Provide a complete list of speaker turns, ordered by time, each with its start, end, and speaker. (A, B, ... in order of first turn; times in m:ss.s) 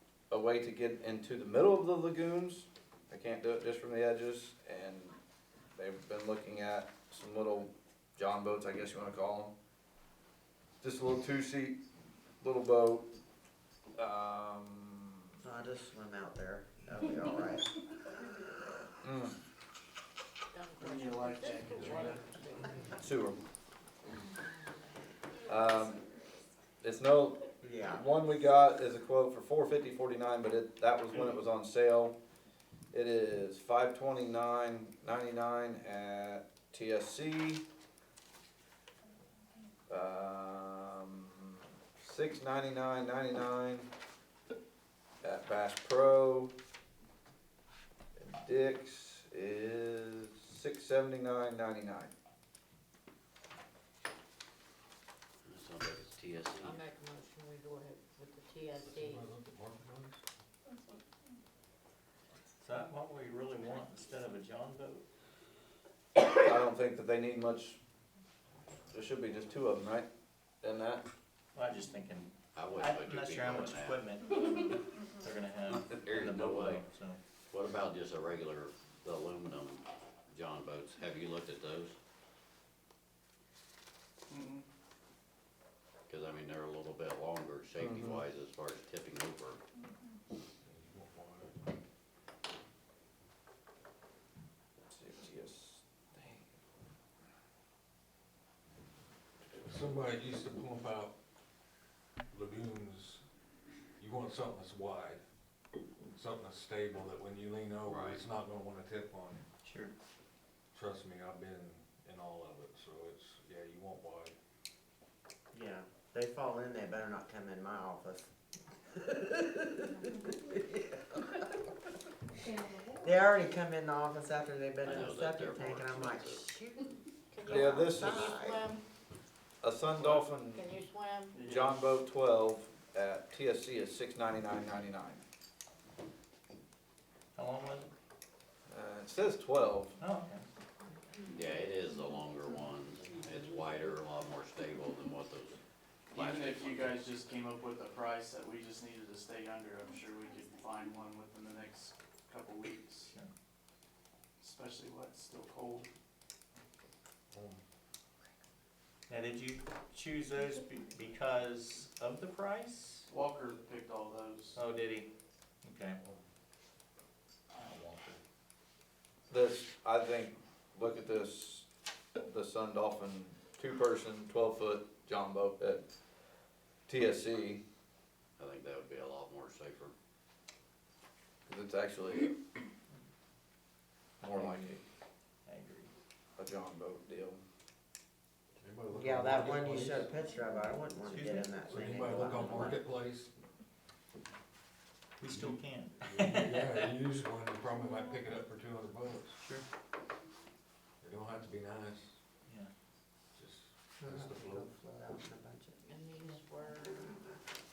0:00.3-0:05.2 A
0:05.8-0:09.5 A
0:10.8-0:11.8 A
0:12.4-0:13.1 A
0:14.0-0:15.4 A
0:15.4-0:18.4 B
0:19.0-0:19.4 A
0:20.5-0:22.9 C
0:20.8-0:22.6 D
0:23.0-0:23.4 A
0:24.3-0:24.9 C
0:25.5-0:26.0 A
0:26.8-0:32.2 A
0:27.6-0:28.1 B
0:31.1-0:31.4 D
0:32.9-0:37.6 A
0:39.9-0:43.9 A
0:45.2-0:46.5 A
0:48.2-0:52.1 A
0:55.4-0:56.8 E
0:56.6-0:59.3 C
0:58.9-1:00.2 F
1:02.6-1:05.0 G
1:06.4-1:07.8 A
1:08.9-1:10.1 A
1:10.6-1:11.0 A
1:11.5-1:17.2 G
1:12.6-1:14.1 E
1:15.7-1:16.8 E
1:17.5-1:22.0 E
1:24.3-1:24.6 D
1:26.1-1:29.6 E
1:27.8-1:28.2 A
1:30.6-1:31.6 F
1:34.9-1:36.5 A
1:39.6-1:41.1 F
1:42.3-1:43.2 F
1:44.0-1:45.2 F
1:46.0-1:49.4 F
1:47.8-1:48.2 E
1:49.6-1:49.9 G
1:50.7-1:54.4 F
1:55.5-1:58.3 B
1:59.0-2:01.4 B
2:03.0-2:06.9 B
2:04.8-2:06.5 E
2:07.3-2:08.8 C
2:07.4-2:08.7 B
2:07.5-2:08.4 A
2:09.6-2:10.7 A
2:10.0-2:10.3 D
2:10.4-2:11.4 C
2:11.4-2:11.8 D
2:11.4-2:15.2 A
2:17.4-2:17.9 G
2:18.7-2:20.0 A
2:20.0-2:20.5 G
2:21.3-2:25.6 E
2:26.1-2:27.0 E
2:26.1-2:33.1 D
2:34.4-2:35.9 D
2:37.3-2:37.6 F
2:39.1-2:43.1 G
2:43.1-2:44.6 D
2:44.5-2:45.1 G
2:45.6-2:46.0 G
2:47.6-2:48.2 G
2:49.3-2:51.7 A
2:52.2-2:55.8 A
2:56.9-2:57.6 A
2:58.4-2:59.9 E
3:01.5-3:02.4 A
3:04.2-3:04.8 A
3:04.2-3:04.8 G
3:05.5-3:05.9 G
3:06.4-3:07.4 A
3:08.6-3:10.1 F
3:09.0-3:12.8 B
3:11.0-3:11.6 G
3:11.7-3:13.3 F
3:15.2-3:16.9 G
3:15.3-3:19.4 F
3:21.0-3:22.2 F
3:23.3-3:24.7 F
3:24.0-3:25.8 B
3:25.8-3:27.1 C